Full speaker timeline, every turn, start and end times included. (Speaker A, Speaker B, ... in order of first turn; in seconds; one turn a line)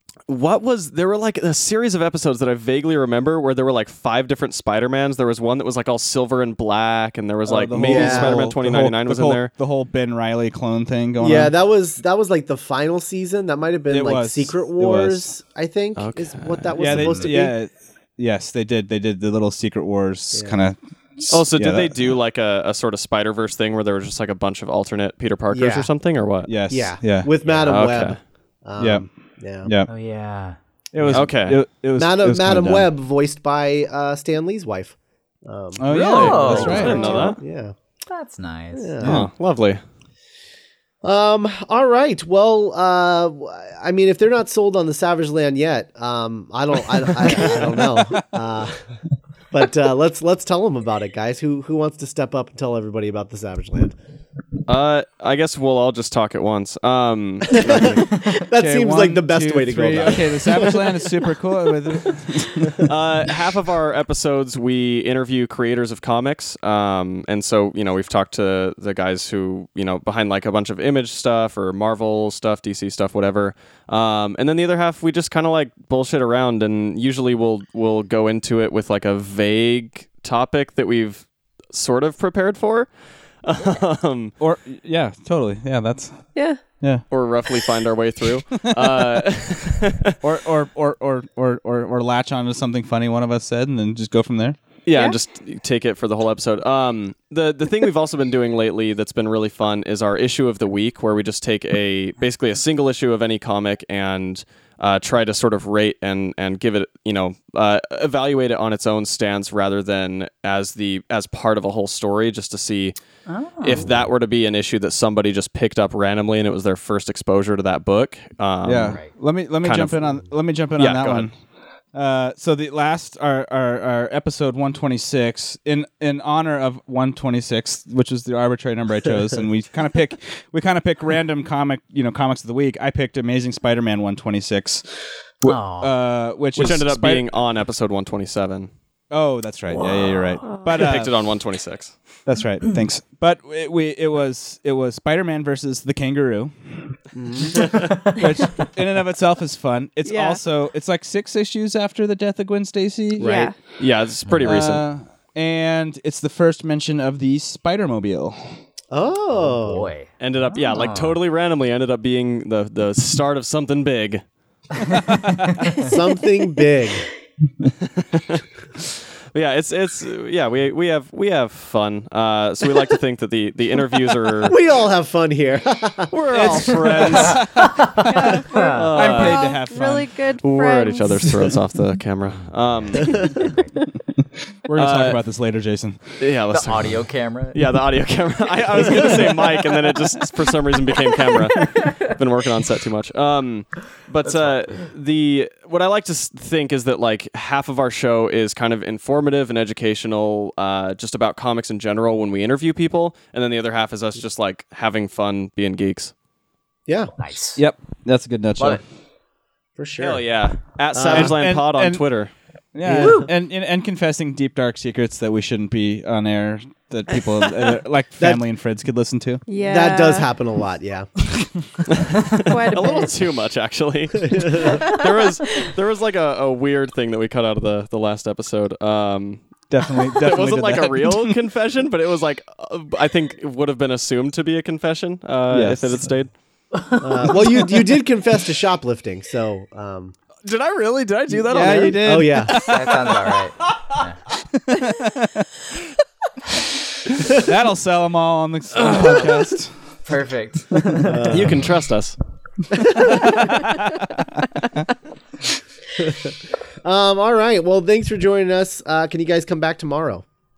Speaker A: 0.3-9.5
Speaker B: 7.5-11.5
Speaker C: 7.8-8.4
Speaker C: 11.2-17.5
Speaker B: 13.9-15.3
Speaker A: 15.9-17.3
Speaker B: 16.8-21.9
Speaker A: 21.3-26.5
Speaker C: 25.5-25.9
Speaker B: 26.4-27.3
Speaker C: 26.6-29.7
Speaker A: 27.6-28.2
Speaker B: 28.8-29.9
Speaker D: 29.9-30.6
Speaker B: 30.9-32.9
Speaker C: 31.0-31.4
Speaker A: 31.1-31.7
Speaker C: 31.9-37.7
Speaker B: 35.8-37.3
Speaker D: 35.9-37.2
Speaker A: 35.9-37.4
Speaker D: 38.1-38.9
Speaker C: 38.7-39.2
Speaker A: 39.0-39.8
Speaker B: 39.0-39.3
Speaker C: 41.0-48.8
Speaker C: 49.5-54.0
Speaker A: 54.7-58.0
Speaker C: 57.5-60.8
Speaker B: 58.4-62.8
Speaker A: 62.8-82.9
Speaker A: 83.4-84.3
Speaker B: 84.4-87.0
Speaker E: 86.3-86.8
Speaker A: 87.1-90.2
Speaker B: 88.6-89.0
Speaker B: 90.2-94.6
Speaker A: 94.8-113.0
Speaker E: 94.9-95.2
Speaker D: 113.3-113.9
Speaker A: 113.6-119.1
Speaker B: 118.6-121.3
Speaker A: 119.6-120.0
Speaker A: 120.8-121.3
Speaker B: 121.9-137.2
Speaker D: 135.4-135.9
Speaker A: 136.5-138.7
Speaker B: 139.1-141.1
Speaker E: 140.4-140.8
Speaker A: 140.8-142.0
Speaker B: 142.2-146.9
Speaker C: 147.1-147.7
Speaker B: 148.2-153.5
Speaker E: 150.0-150.4
Speaker C: 153.2-153.5
Speaker E: 153.2-153.6
Speaker A: 153.8-154.8
Speaker D: 154.2-154.5
Speaker B: 154.4-158.4
Speaker C: 158.9-159.9
Speaker D: 159.3-161.2
Speaker A: 160.2-164.2
Speaker C: 165.8-167.0
Speaker A: 168.1-174.6
Speaker C: 174.4-176.1
Speaker A: 176.1-178.1
Speaker B: 176.3-177.9
Speaker D: 177.1-177.8
Speaker E: 178.1-181.3
Speaker D: 178.5-178.8
Speaker A: 178.7-179.5
Speaker B: 178.9-180.2
Speaker A: 180.4-183.3
Speaker D: 182.7-183.7
Speaker B: 184.7-186.2
Speaker A: 184.8-185.2
Speaker A: 186.2-206.1
Speaker D: 186.5-187.6
Speaker D: 194.3-194.8
Speaker C: 206.9-207.1
Speaker D: 207.2-207.6
Speaker B: 207.6-208.8
Speaker C: 209.8-210.2
Speaker A: 210.0-212.3
Speaker C: 211.0-211.3
Speaker B: 211.0-212.0
Speaker B: 212.7-219.4
Speaker C: 212.8-213.2
Speaker E: 219.5-220.3
Speaker C: 219.6-221.1
Speaker A: 221.9-236.3
Speaker E: 222.4-223.2
Speaker C: 224.3-224.8
Speaker E: 224.7-225.5
Speaker B: 229.7-231.4
Speaker B: 235.5-236.1
Speaker C: 237.0-240.2
Speaker A: 240.4-242.2
Speaker B: 241.5-243.0
Speaker C: 242.0-242.6
Speaker D: 242.6-244.2
Speaker B: 244.7-245.4
Speaker B: 247.3-249.7
Speaker D: 250.1-251.0
Speaker B: 250.7-251.2
Speaker C: 251.0-251.6
Speaker A: 251.3-252.2
Speaker B: 253.3-253.8
Speaker C: 256.0-256.2
Speaker C: 256.8-260.2